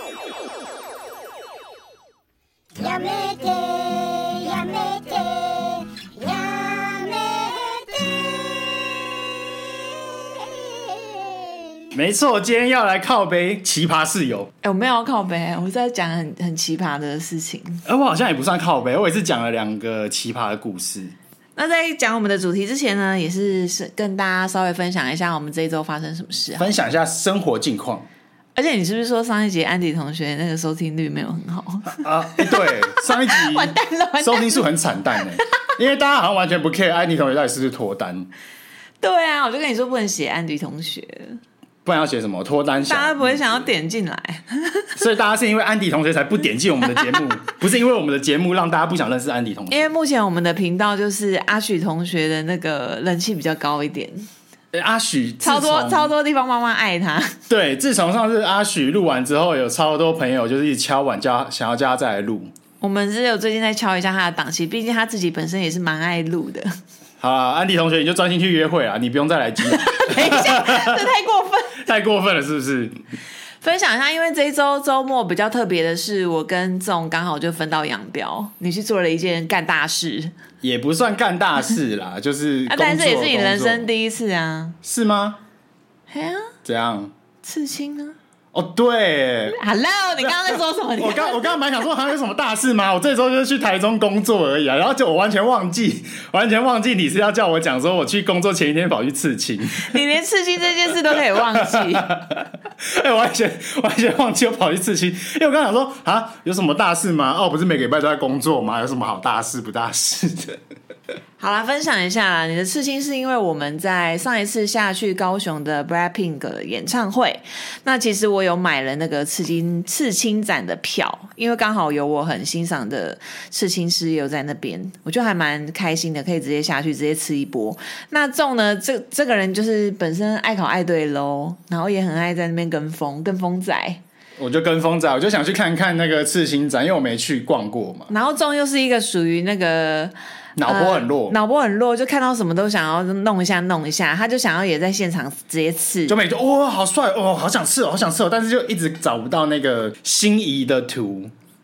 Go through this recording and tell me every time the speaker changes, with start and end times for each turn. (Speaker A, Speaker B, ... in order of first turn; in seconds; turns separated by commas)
Speaker A: 2.7-9.6, Speaker A: 10.1-11.7, Speaker B: 11.9-14.5, Speaker C: 14.6-17.8, Speaker B: 17.9-21.1, Speaker C: 21.6-26.7, Speaker B: 26.6-28.1, Speaker C: 28.5-34.6, Speaker B: 31.9-38.3, Speaker C: 39.0-41.4, Speaker B: 41.8-43.7, Speaker C: 42.9-44.9, Speaker B: 45.0-49.9, Speaker C: 49.7-54.3, Speaker B: 54.7-56.1, Speaker C: 55.4-57.4, Speaker B: 57.5-62.5, Speaker C: 62.8-66.7, Speaker B: 67.2-71.0, Speaker C: 69.7-71.8, Speaker B: 71.7-72.9, Speaker C: 73.6-80.3, Speaker B: 80.6-83.9, Speaker C: 82.7-84.8, Speaker B: 84.8-85.4, Speaker C: 86.1-86.5, Speaker B: 86.6-87.1, Speaker C: 87.4-88.2, Speaker B: 88.5-89.6, Speaker C: 89.5-91.5, Speaker B: 91.0-100.0, Speaker C: 99.8-102.1, Speaker B: 101.1-110.6, Speaker C: 111.4-134.0, Speaker B: 134.4-138.1, Speaker C: 138.1-140.1, Speaker B: 140.6-141.4, Speaker C: 140.6-146.2, Speaker B: 146.1-151.3